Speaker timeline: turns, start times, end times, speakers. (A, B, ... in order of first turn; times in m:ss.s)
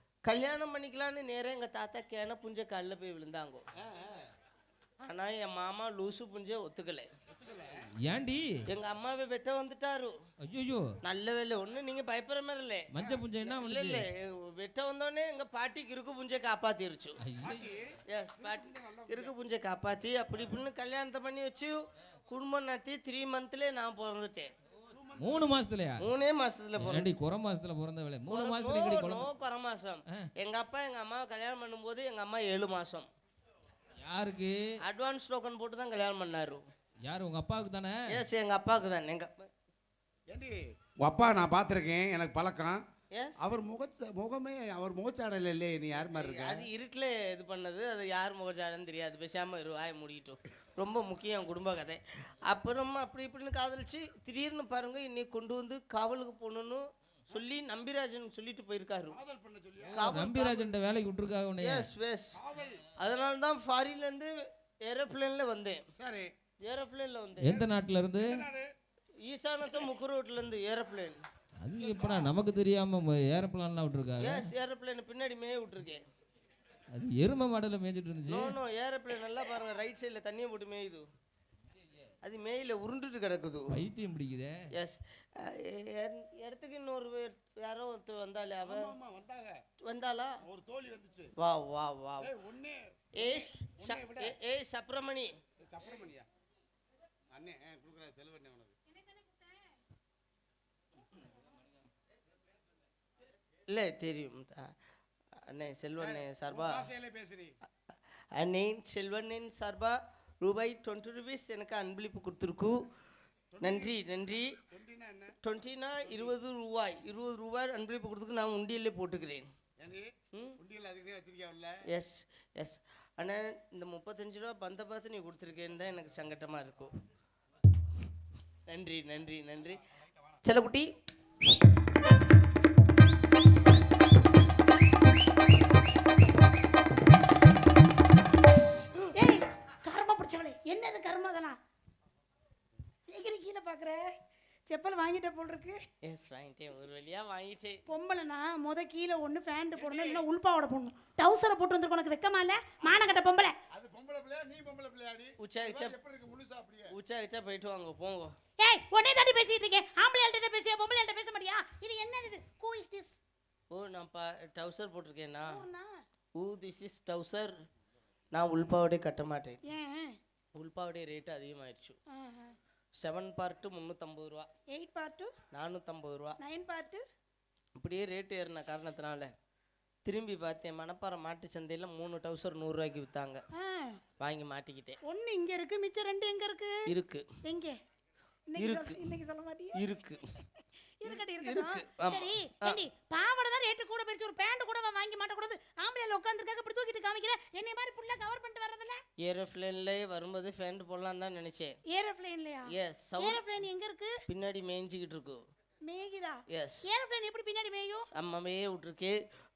0:00.2-0:03.6 A
0:03.8-0:04.3 B
0:05.0-0:07.1 A
0:07.3-0:07.9 B
0:08.0-0:08.4 C
0:08.7-0:10.1 A
0:10.5-0:10.9 C
0:11.0-0:12.9 A
0:12.9-0:14.0 C
0:13.4-0:17.2 A
0:17.2-0:17.6 C
0:17.4-0:19.3 B
0:18.1-0:24.5 A
0:24.9-0:25.7 B
0:25.2-0:26.1 C
0:26.0-0:27.1 A
0:26.8-0:29.3 C
0:28.3-0:33.1 A
0:34.0-0:34.6 C
0:34.8-0:36.6 A
0:37.1-0:38.0 C
0:38.1-0:39.5 A
0:40.3-0:42.8 B
0:43.4-0:46.7 B
0:46.1-0:59.2 A
0:59.1-1:00.2 B
0:59.9-1:01.9 C
0:59.9-1:00.7 A
1:01.6-1:02.4 A
1:02.4-1:02.9 B
1:03.0-1:05.8 A
1:06.0-1:06.3 B
1:06.6-1:07.6 A
1:07.4-1:08.4 C
1:08.2-1:08.7 B
1:09.2-1:11.2 A
1:11.6-1:14.5 C
1:11.8-1:12.4 B
1:14.2-1:16.0 A
1:16.9-1:18.6 C
1:18.3-1:21.1 A
1:22.2-1:23.8 A
1:23.7-1:24.6 C
1:24.7-1:28.9 A
1:28.6-1:29.6 B
1:29.8-1:30.4 A
1:30.4-1:31.3 B
1:31.4-1:32.3 A
1:32.2-1:34.4 B
1:33.2-1:35.3 A
1:35.6-1:36.3 B
1:37.3-1:38.7 B
1:38.9-1:39.8 D
1:43.7-1:44.7 A
1:45.4-1:46.9 A
1:46.0-1:47.6 B
1:48.4-1:52.8 A
1:53.5-1:55.4 B
1:53.6-1:54.5 A
1:55.4-1:59.5 A
1:59.8-2:01.8 B
2:00.3-2:00.6 A
2:01.9-2:06.9 A
2:08.7-2:09.8 A
2:10.4-2:10.9 A
2:19.1-2:21.6 D
2:23.1-2:24.2 D
2:24.7-2:25.8 D
2:26.0-2:27.8 A
2:27.9-2:33.6 D
2:29.8-2:30.3 B
2:33.7-2:36.9 B
2:35.4-2:36.0 A
2:36.9-2:38.4 A
2:38.6-2:43.2 D
2:43.7-2:45.6 A
2:45.4-2:45.9 D
2:46.4-2:47.6 A
2:48.3-2:49.6 A
2:49.6-2:50.2 D
2:50.6-2:52.0 A
2:52.1-2:52.6 D
2:53.0-2:54.5 A
2:54.7-2:55.3 D
2:55.5-2:56.4 A
2:56.4-2:57.0 D
2:57.8-2:59.3 A
3:00.0-3:03.4 A
3:03.6-3:04.0 D
3:04.2-3:05.0 A
3:05.0-3:06.9 D
3:06.9-3:07.3 A
3:07.4-3:07.8 D
3:08.5-3:09.8 D
3:08.6-3:09.1 A
3:09.8-3:10.3 A
3:10.6-3:19.0 D
3:11.0-3:12.8 A
3:19.2-3:21.8 A
3:21.9-3:24.2 D
3:22.7-3:23.4 A
3:24.3-3:25.4 A
3:25.8-3:28.1 D
3:26.5-3:26.9 A
3:28.2-3:29.2 A